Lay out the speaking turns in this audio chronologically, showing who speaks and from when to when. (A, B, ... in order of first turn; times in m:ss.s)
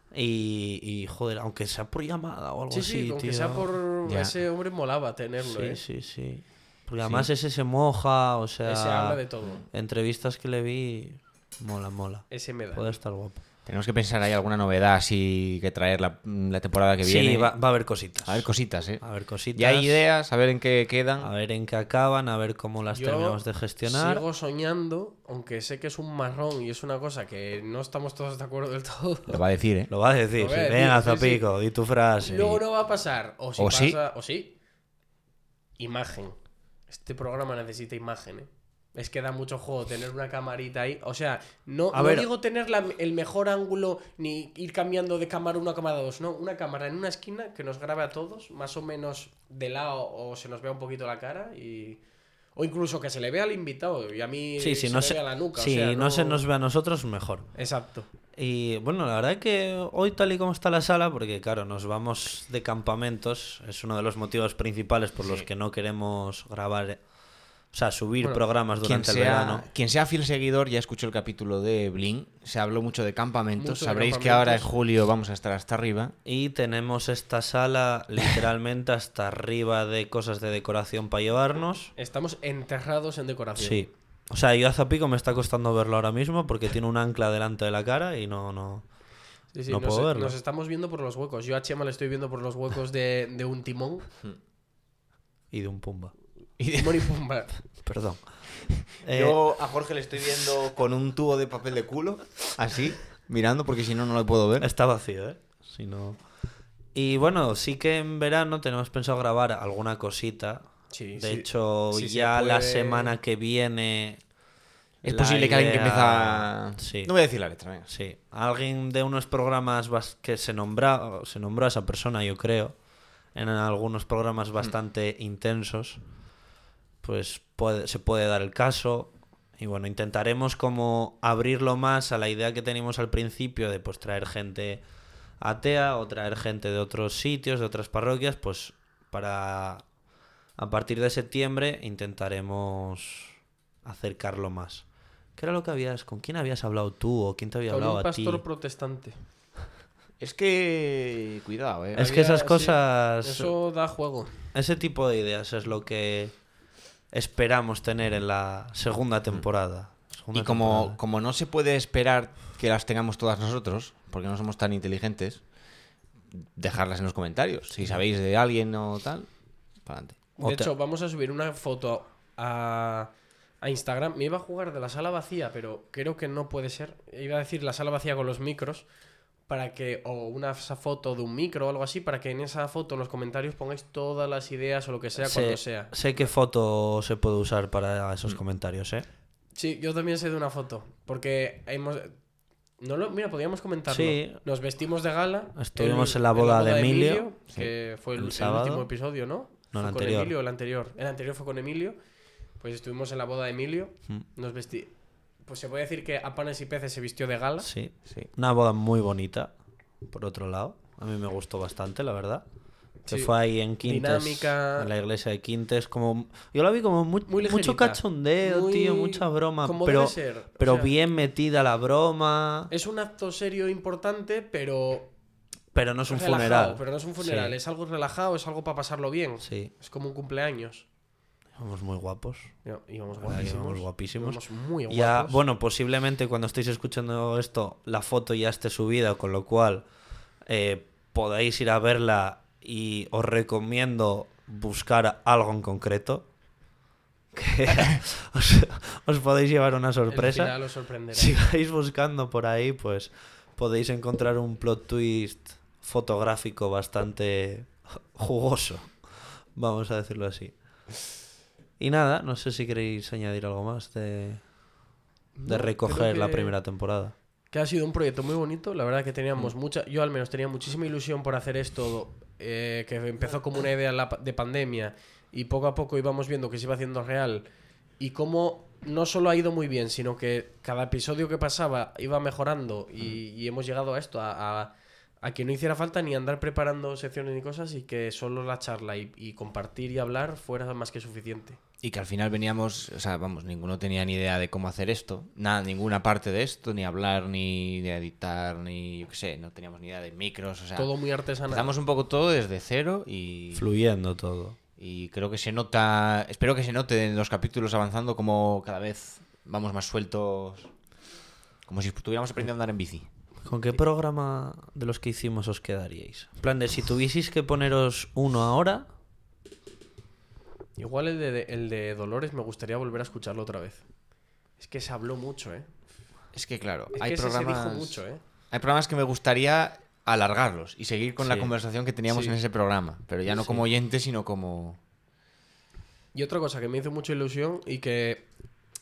0:00.1-0:03.7 A
0:02.7-0:05.8 B
0:04.0-0:04.4 C
0:05.4-0:09.2 A
0:07.0-0:07.3 C
0:08.6-0:09.6 B
0:09.7-0:13.4 A
0:12.3-0:13.0 B
0:13.6-0:21.3 C
0:17.0-0:20.0 A
0:21.2-0:24.2 A
0:22.9-0:29.4 B
0:29.3-0:29.9 C
0:29.9-0:32.6 A
0:30.4-0:31.4 B
0:32.2-0:34.5 B
0:33.6-0:34.0 C
0:35.8-0:52.0 B
0:41.9-0:42.3 A
0:52.5-0:56.4 B
0:54.6-0:57.5 A
0:57.5-0:58.1 B
0:58.3-1:07.1 A
1:05.2-1:05.5 C
1:07.7-1:09.7 A
1:08.8-1:16.1 C
1:13.6-1:14.7 B
1:16.2-1:21.9 A
1:22.0-1:23.9 B
1:23.6-1:29.1 A
1:29.5-1:34.1 B
1:29.7-1:30.4 A
1:35.5-1:36.1 A
1:36.6-1:37.0 C
1:36.7-1:37.6 B
1:37.8-1:39.4 A
1:39.1-1:44.7 C
1:44.6-1:46.2 A
1:46.9-1:54.3 A
1:50.9-1:53.1 B
1:55.0-1:57.9 C
1:55.0-1:57.2 A
1:57.8-2:02.8 A
2:03.3-2:06.0 A
2:07.0-2:14.8 A
2:15.4-2:19.8 A
2:20.6-2:28.4 A
2:27.7-2:29.3 B
2:30.2-2:32.0 C
2:32.0-2:33.5 A
2:32.0-2:34.5 B
2:34.5-2:41.0 A
2:40.3-2:45.6 C
2:46.3-2:50.2 C
2:50.4-2:58.9 B
2:50.4-2:50.7 A
2:59.4-3:06.3 B
3:05.2-3:09.0 A
3:09.5-3:12.2 B
3:12.8-3:22.0 B
3:13.9-3:14.4 A
3:15.5-3:18.9 A
3:19.7-3:20.3 A
3:22.6-3:27.7 B
3:27.6-3:29.5 A
3:30.1-3:32.4 A
3:33.0-3:42.7 A
3:33.1-3:34.9 B
3:37.3-3:40.9 B
3:42.7-3:45.1 B
3:45.7-3:47.6 A
3:46.1-3:50.9 B
3:49.4-3:49.7 A
3:51.6-3:52.6 A
3:52.6-3:55.4 B
3:53.2-3:59.8 A
4:00.4-4:06.3 A
4:07.3-4:10.6 A
4:10.1-4:11.4 B
4:11.1-4:21.1 A
4:21.8-4:24.7 A
4:25.3-4:26.6 B
4:25.4-4:27.1 A
4:27.5-4:37.4 B
4:38.0-4:51.6 B
4:51.8-5:00.9 C
5:00.7-5:01.8 B
5:01.4-5:03.7 C
5:03.5-5:04.6 A
5:04.8-5:10.7 C
5:11.6-5:13.1 C
5:13.4-5:18.9 A
5:20.8-5:25.7 B
5:26.3-5:34.8 C
5:26.9-5:28.2 B
5:31.2-5:31.5 A
5:32.1-5:32.4 B
5:36.1-5:38.3 B